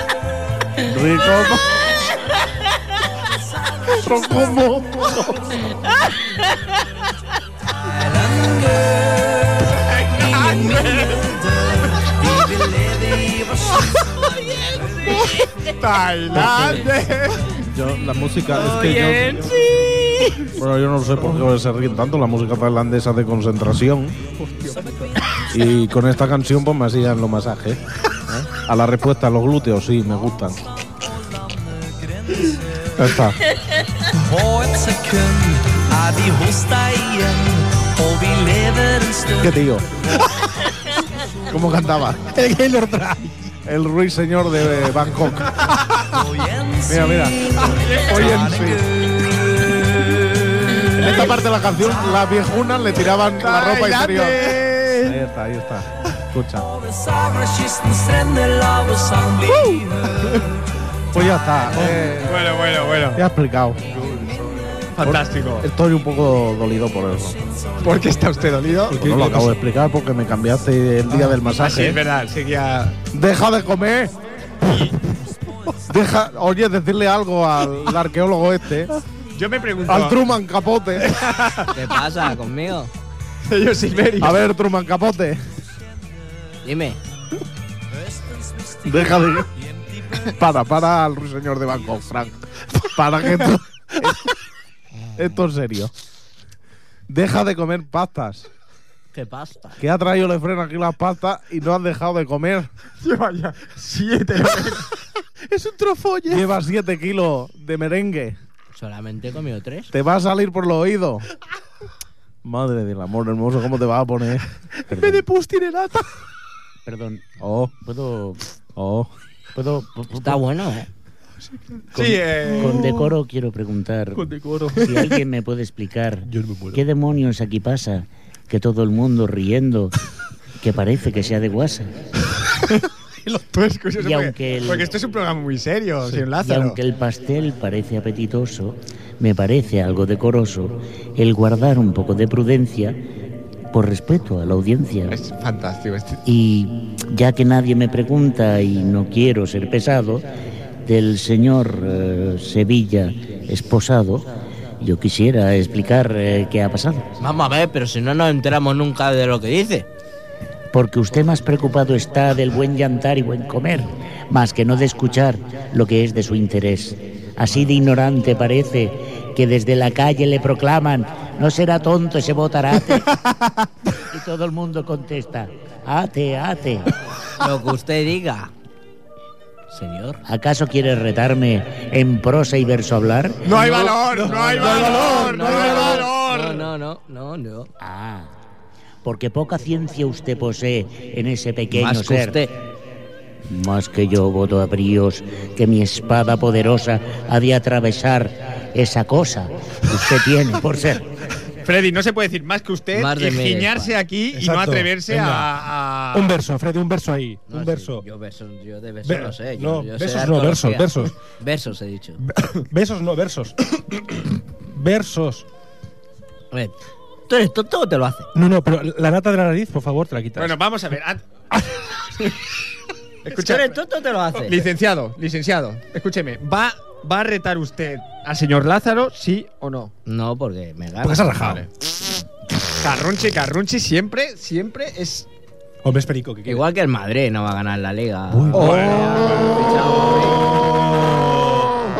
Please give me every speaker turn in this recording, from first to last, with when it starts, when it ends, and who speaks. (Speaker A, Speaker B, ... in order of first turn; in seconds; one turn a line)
Speaker A: 0.8-1.9
Speaker B: 3.6-4.6
Speaker A: 3.9-5.6
Speaker B: 7.8-15.5
Speaker C: 9.8-11.2
Speaker C: 15.7-17.6
Speaker A: 16.3-16.9
Speaker A: 17.7-19.5
Speaker B: 18.5-20.5
Speaker A: 20.5-24.2
Speaker B: 24.5-25.1
Speaker A: 25.5-30.6
Speaker B: 31.1-33.2
Speaker A: 33.0-33.4
Speaker B: 34.1-39.6
Speaker A: 39.4-39.9
Speaker B: 40.8-41.4
Speaker A: 41.5-42.3
Speaker D: 42.3-43.5
Speaker A: 43.6-45.6
Speaker B: 46.1-51.0
Speaker A: 46.9-48.8
Speaker C: 47.7-48.2
Speaker A: 50.9-56.7
Speaker C: 53.4-55.2
Speaker B: 56.6-60.6
Speaker A: 61.1-62.5
Speaker C: 61.8-63.2
Speaker A: 63.1-64.0
Speaker B: 64.1-64.7
Speaker C: 64.9-65.7
Speaker A: 65.0-67.4
Speaker B: 67.5-68.0
Speaker C: 67.8-69.0
Speaker D: 68.9-69.6
Speaker A: 68.9-72.0
Speaker C: 71.3-73.0
Speaker A: 73.1-74.1
Speaker C: 74.6-75.0
Speaker A: 75.9-78.9
Speaker C: 79.3-80.2
Speaker A: 79.9-81.1
Speaker C: 81.0-81.8
Speaker E: 81.7-82.9
Speaker C: 83.5-84.4
Speaker A: 84.2-85.4
Speaker E: 86.6-87.0
Speaker B: 88.3-88.9
Speaker A: 88.8-89.5
Speaker B: 90.0-90.3
Speaker A: 90.2-94.3
Speaker A: 95.1-95.9
Speaker A: 97.1-98.5
Speaker E: 99.1-99.8
Speaker A: 99.8-102.7
Speaker C: 103.0-104.9
Speaker A: 105.5-108.4
Speaker E: 108.7-109.9
Speaker A: 109.9-111.3
Speaker A: 112.4-116.0
Speaker F: 114.9-115.2
Speaker F: 116.9-117.2
Speaker A: 117.4-117.7
Speaker F: 117.8-118.4
Speaker A: 118.8-119.1
Speaker F: 119.5-120.4
Speaker E: 120.1-120.9
Speaker C: 121.9-122.8
Speaker F: 121.9-129.9
Speaker D: 126.3-126.8
Speaker F: 130.6-131.9
Speaker C: 133.5-136.8
Speaker F: 134.0-134.9
Speaker F: 136.4-143.0
Speaker F: 143.7-145.2
Speaker C: 145.1-146.2
Speaker F: 146.2-150.3
Speaker F: 150.8-154.3
Speaker F: 154.8-157.1
Speaker E: 157.2-159.9
Speaker F: 160.7-173.2
Speaker C: 173.1-173.5
Speaker F: 174.0-176.9
Speaker E: 177.4-178.5
Speaker E: 179.7-180.2
Speaker F: 180.2-183.5
Speaker C: 183.4-186.7
Speaker E: 183.5-187.7
Speaker F: 187.8-188.3
Speaker F: 189.0-192.4
Speaker E: 191.7-192.6
Speaker F: 193.5-201.1
Speaker C: 201.6-206.3
Speaker E: 202.9-204.0
Speaker D: 204.3-205.5
Speaker D: 206.1-208.0
Speaker E: 207.5-212.2
Speaker D: 209.0-211.2
Speaker D: 212.5-215.5
Speaker E: 216.5-216.8
Speaker E: 217.3-218.3
Speaker D: 218.3-220.5
Speaker C: 220.4-221.2
Speaker C: 223.2-223.8
Speaker E: 223.3-224.6
Speaker C: 224.4-229.9
Speaker E: 230.1-231.6
Speaker D: 231.0-231.7
Speaker C: 232.8-235.3
Speaker D: 235.8-236.7
Speaker E: 236.5-240.5
Speaker D: 238.3-239.4
Speaker C: 238.6-238.9
Speaker D: 240.6-241.2